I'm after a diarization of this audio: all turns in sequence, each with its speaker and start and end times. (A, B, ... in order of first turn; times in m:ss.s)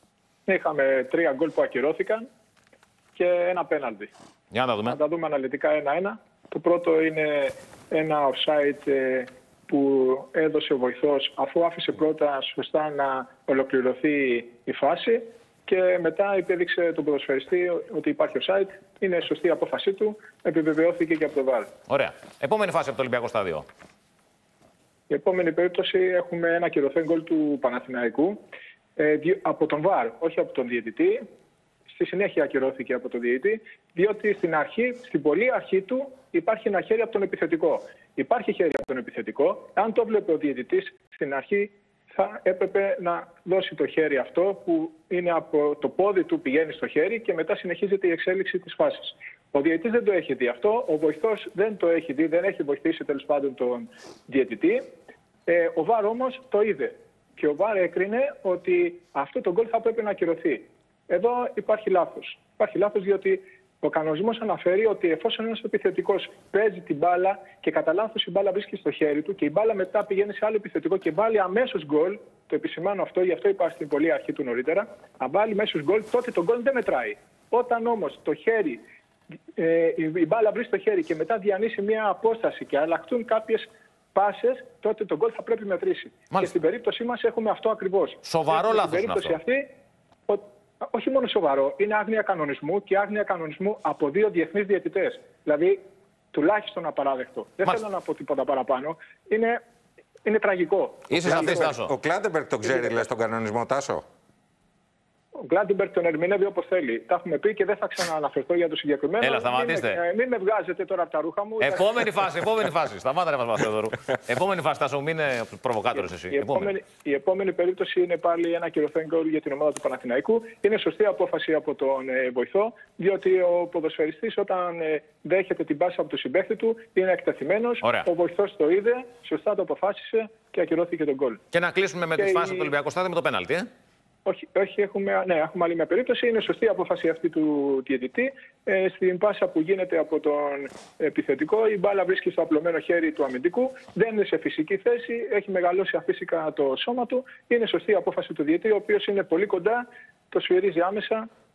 0:00.5-0:02.3 A
0:03.1-0:04.1 A
0:04.5-0:05.0 B
0:04.8-0:21.7 A
0:21.9-0:23.6 B
0:25.1-0:28.4 A
0:29.0-0:31.2 A
0:31.9-0:54.8 A
0:55.5-1:18.8 A
1:19.6-1:29.7 A
1:28.2-1:29.4 B
1:30.3-1:35.8 A
1:36.3-1:39.6 A
1:40.2-1:41.7 A
1:41.1-1:41.9 B
1:41.2-1:44.0 C
1:42.6-1:43.1 A
1:45.4-1:52.1 A
1:49.2-1:50.0 B
1:51.6-1:56.7 B
1:56.3-2:11.4 A
2:07.8-2:08.1 B
2:11.5-2:13.7 B
2:12.2-2:12.7 A
2:14.2-2:31.2 A